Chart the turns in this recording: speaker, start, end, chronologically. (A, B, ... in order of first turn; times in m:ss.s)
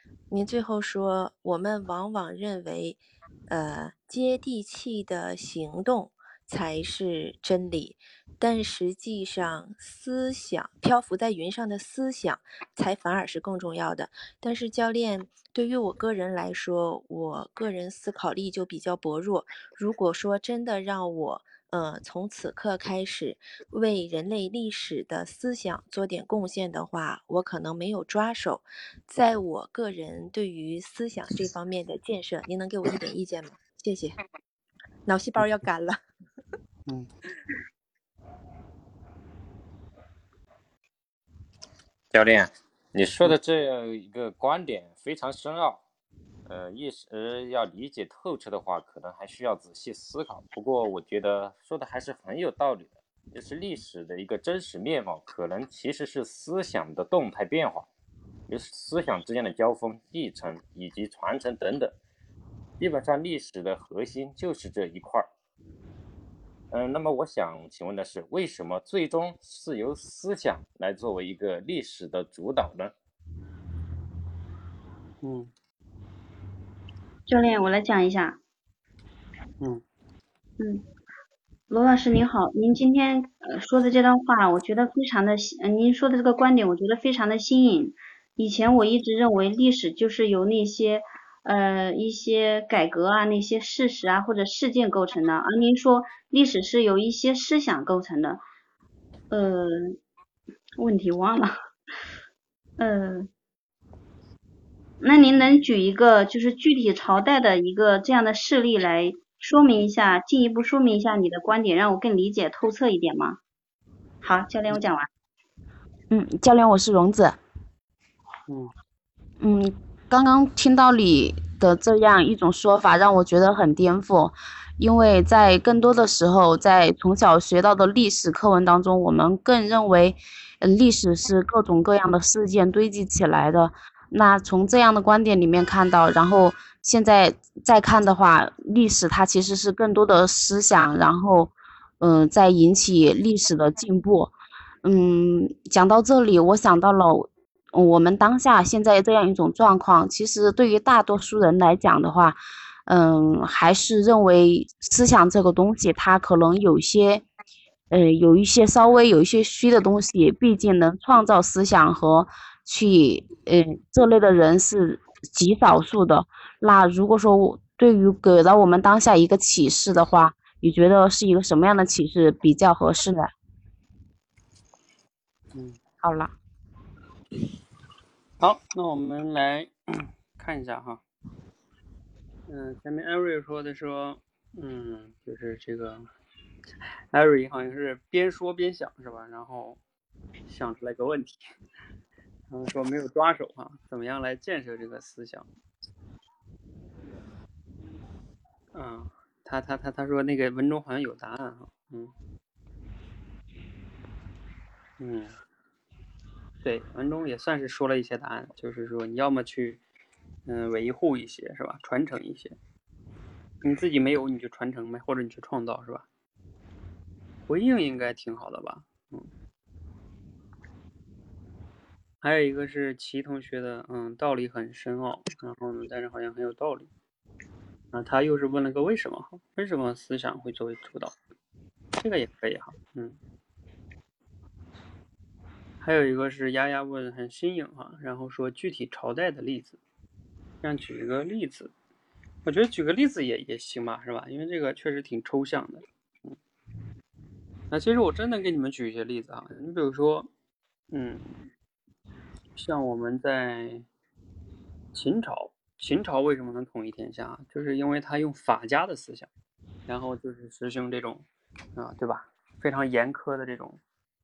0:00.3-0:34.2 A
0:35.0-0:36.0 A
0:42.1-0:45.8 B
0:46.5-0:57.9 B
0:58.5-1:02.0 B
1:02.8-1:05.3 B
1:06.7-1:12.9 B
1:15.2-1:15.5 C
1:17.3-1:18.4 D
1:21.7-1:38.4 D
1:39.3-1:40.0 D
1:40.8-1:41.5 D
1:42.8-1:43.3 D
1:45.0-1:53.4 D
1:54.2-1:55.1 D
1:56.1-1:57.4 E
1:58.5-1:58.7 C
1:59.4-2:24.3 E
2:24.8-2:37.2 E
2:37.9-2:53.3 E
2:55.5-2:55.8 C
2:56.0-2:56.3 E
2:58.4-3:01.0 C
3:02.5-3:06.0 C
3:07.1-3:09.8 C
3:10.5-3:11.4 C
3:12.5-3:15.4 C
3:18.7-3:22.1 C
3:25.0-3:25.3 C
3:26.6-3:29.8 C
3:30.4-3:32.6 C
3:33.6-3:36.0 C
3:37.5-3:39.3 C
3:42.2-3:46.9 C
3:47.9-3:51.1 C
3:52.0-3:53.2 C
3:55.8-3:59.8 C
4:00.6-4:01.7 C
4:02.4-4:06.4 C
4:07.7-4:10.3 C
4:10.9-4:11.5 C
4:12.5-4:13.8 C
4:14.9-4:19.3 C
4:19.9-4:21.2 C
4:21.8-4:23.8 C